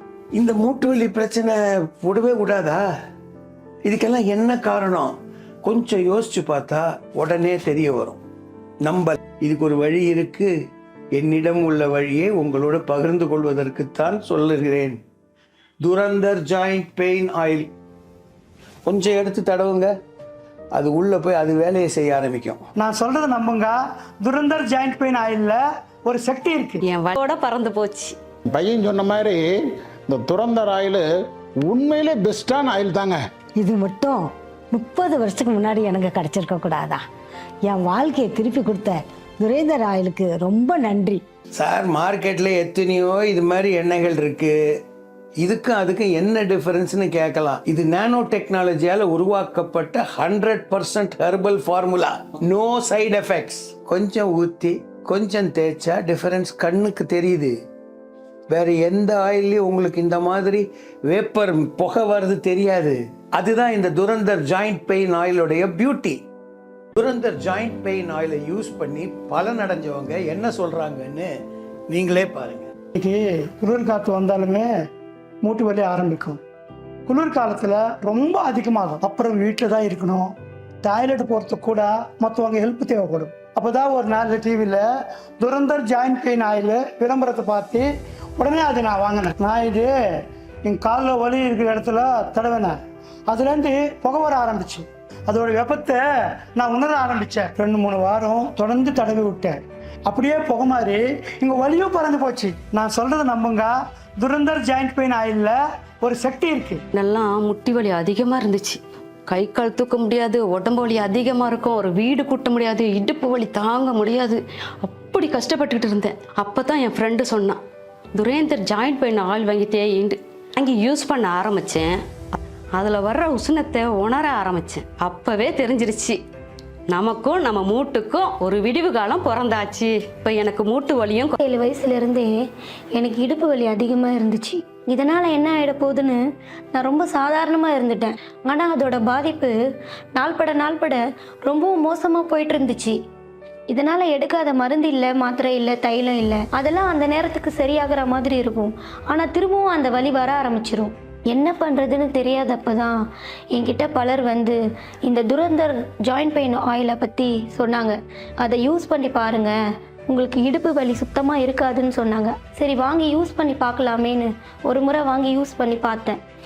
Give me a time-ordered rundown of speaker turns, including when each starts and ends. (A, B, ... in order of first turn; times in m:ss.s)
0:00.3-0:02.8 A
0:03.8-0:08.2 A
0:08.8-0:10.5 A
0:11.1-0:15.0 A
0:15.8-0:17.7 A
0:18.8-0:19.9 A
0:20.7-0:22.6 A
0:22.8-0:26.8 B
0:26.9-0:28.1 C
0:28.5-0:29.5 D
0:30.1-0:31.1 D
0:31.6-0:33.2 D
0:33.6-0:34.2 E
0:34.7-0:37.0 E
0:37.7-0:41.2 E
0:41.5-0:44.6 A
0:45.4-0:57.6 A
0:58.5-1:06.2 A
1:07.0-1:11.3 A
1:11.9-1:12.7 A
1:13.0-1:14.7 B
1:15.4-1:16.4 B
1:17.0-1:24.8 B
1:25.4-1:29.9 B
1:30.6-1:32.8 B
1:33.3-1:46.8 B
1:46.9-1:57.6 C
1:58.1-2:02.0 C
2:02.8-2:06.2 C
2:06.9-2:11.4 C
2:11.4-2:12.3 F
2:13.0-2:16.2 F
2:16.7-2:19.5 F
2:20.2-2:23.0 F
2:23.7-2:33.0 F
2:33.6-2:39.5 F
2:40.1-2:46.2 F